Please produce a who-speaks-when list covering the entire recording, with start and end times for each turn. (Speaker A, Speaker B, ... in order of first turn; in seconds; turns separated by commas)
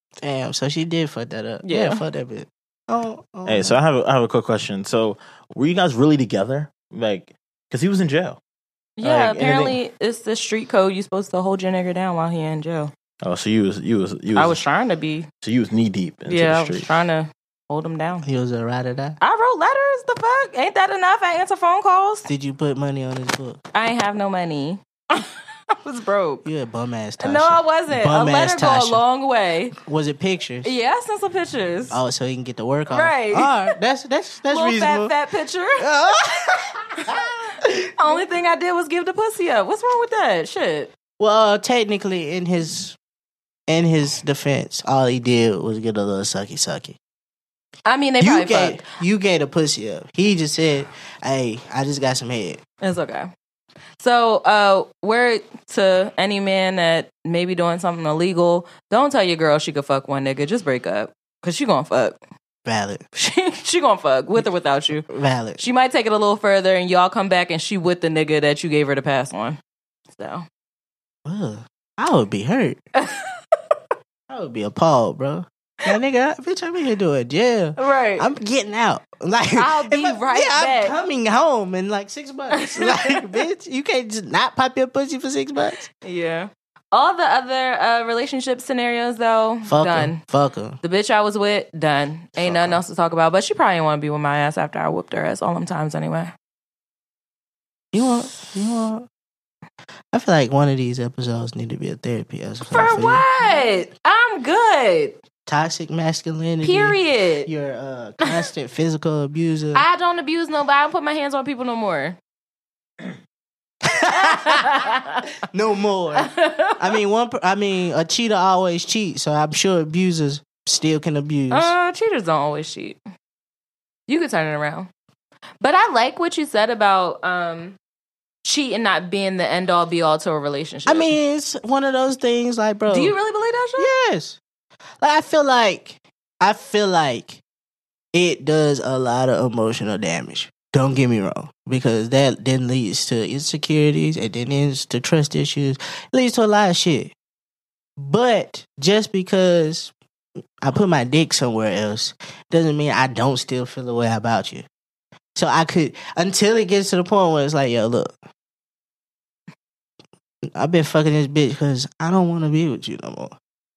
Speaker A: 0.2-3.8, Speaker B: 1.6-2.0, Speaker C: 3.5-8.4, Speaker B: 9.0-12.9, Speaker C: 9.0-9.8, Speaker C: 13.2-14.6, Speaker B: 14.3-15.3, Speaker C: 15.4-16.9, Speaker B: 16.3-18.3, Speaker A: 18.2-19.2, Speaker B: 19.2-22.3, Speaker A: 22.3-23.6, Speaker B: 23.7-26.4, Speaker A: 26.4-29.0, Speaker B: 27.2-29.8, Speaker A: 29.8-30.7, Speaker B: 30.6-32.0, Speaker A: 31.9-35.1, Speaker B: 32.9-33.7, Speaker B: 34.5-35.9, Speaker A: 35.8-38.2, Speaker B: 38.0-40.9, Speaker A: 41.2-43.0, Speaker A: 43.7-47.0, Speaker B: 47.9-48.9, Speaker A: 48.2-52.6, Speaker B: 52.8-53.3, Speaker B: 54.0-62.2, Speaker A: 62.6-63.0, Speaker B: 63.1-69.6, Speaker A: 65.0-65.6, Speaker B: 70.1-70.5, Speaker A: 71.3-72.8, Speaker B: 73.0-73.3, Speaker A: 74.3-85.9, Speaker B: 77.8-78.3, Speaker B: 79.5-81.0, Speaker B: 82.5-83.2, Speaker B: 86.0-90.2, Speaker A: 89.7-90.8, Speaker B: 90.8-96.3, Speaker A: 92.4-92.8, Speaker A: 97.9-99.1, Speaker A: 100.1-103.2, Speaker B: 102.7-105.2, Speaker A: 105.5-109.8, Speaker B: 106.6-107.5, Speaker B: 109.7-112.2, Speaker A: 113.8-114.8, Speaker B: 114.1-115.2, Speaker A: 115.5-121.7, Speaker B: 116.2-116.8, Speaker B: 121.5-123.0, Speaker B: 124.1-124.9, Speaker B: 125.6-127.8, Speaker B: 128.4-131.2, Speaker A: 130.9-133.2, Speaker B: 132.9-133.9, Speaker A: 133.8-134.4, Speaker A: 135.0-137.4, Speaker A: 138.1-147.1, Speaker A: 148.0-149.9, Speaker A: 150.6-154.7, Speaker A: 155.4-158.1, Speaker A: 160.5-163.4